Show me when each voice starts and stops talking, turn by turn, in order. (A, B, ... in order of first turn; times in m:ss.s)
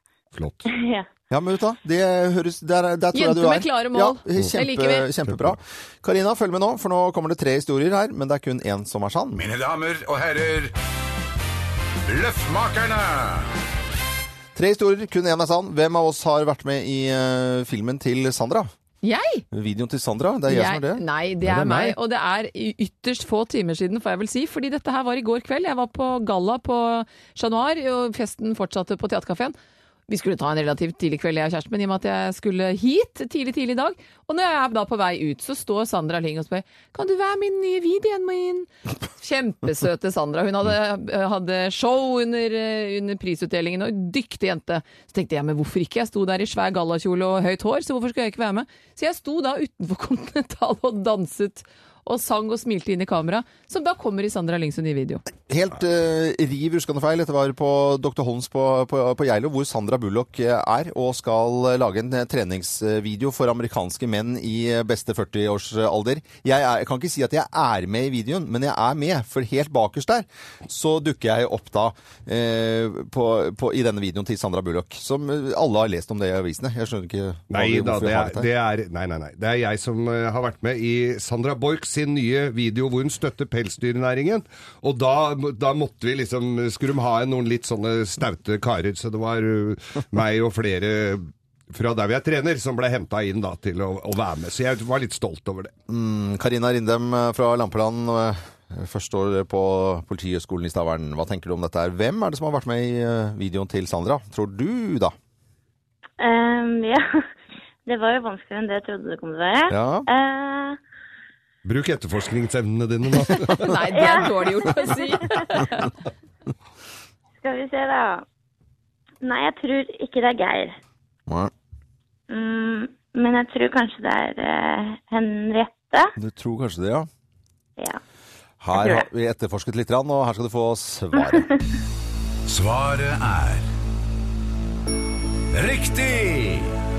0:00.3-0:00.7 A
0:00.7-0:01.1 B
0:01.3-0:09.4 C
0:03.1-0:05.1 D
0:05.3-0:05.6 A
0:09.4-0:10.7 E
0:12.1-0:13.5 E
0:14.6-0:18.7 C
0:19.0-0:19.4 D
0:19.5-0:21.0 C
0:20.5-0:29.6 D
0:30.1-0:55.2 D
0:55.5-1:18.5 C
1:17.5-1:35.7 A
1:35.9-1:45.1 C
1:46.2-1:47.2 B
1:47.9-1:50.8 B
1:49.7-1:50.1 C
1:51.6-1:53.8 A
1:53.6-1:55.8 D
1:53.9-1:55.0 B
1:57.4-1:58.2 B
1:59.2-2:00.8 B
2:02.3-2:06.1 B
2:06.2-2:07.1 C
2:08.6-2:11.5 C
2:08.8-2:09.1 B
2:12.5-2:13.7 E
2:15.5-2:16.7 E